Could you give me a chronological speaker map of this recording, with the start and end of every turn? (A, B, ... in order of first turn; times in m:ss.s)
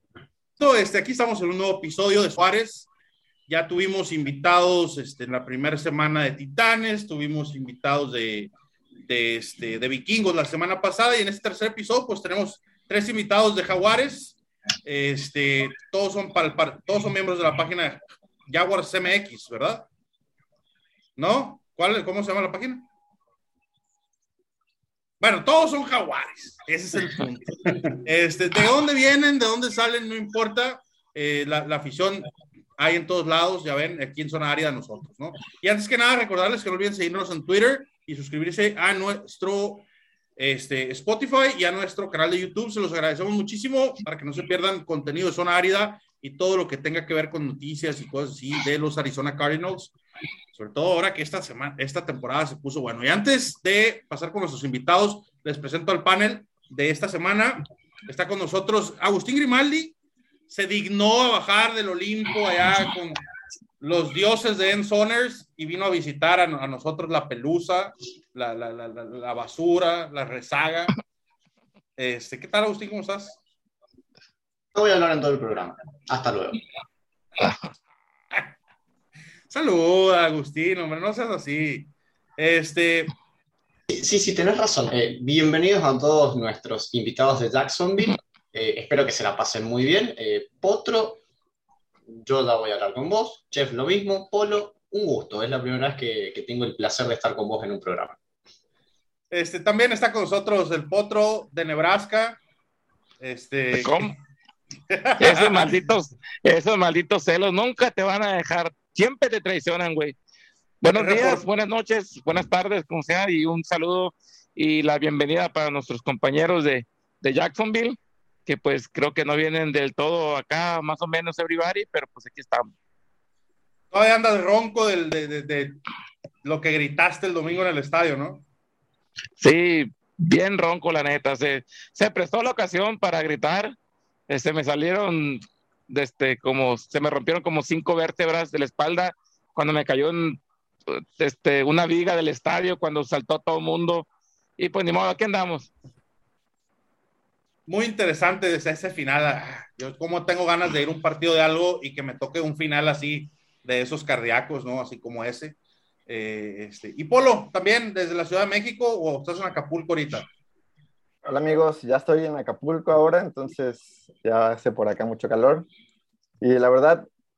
0:00.6-0:02.9 A
0:03.5-0:08.5 A
0:09.0-0:19.9 A
0:21.2-0:22.9 A
0:25.2-0:50.0 A
0:50.5-1:00.0 A
1:00.5-1:03.2 A
1:03.8-1:10.9 A
1:12.0-1:13.4 A
1:14.7-1:16.6 B
1:19.5-1:23.1 A
1:23.9-1:31.2 B
1:32.1-1:38.2 B
1:39.3-1:42.4 A
1:43.2-1:44.1 A
1:43.7-1:44.1 C
1:44.9-1:45.7 A
1:45.2-1:50.2 C
1:50.8-2:02.7 C
1:50.9-1:51.4 A
2:03.9-2:05.8 A
2:06.4-2:08.4 A
2:09.4-2:13.8 C
2:14.3-2:24.1 C
2:24.6-2:25.7 C
2:27.7-2:40.3 A
2:41.3-2:45.7 D
2:46.4-2:47.1 D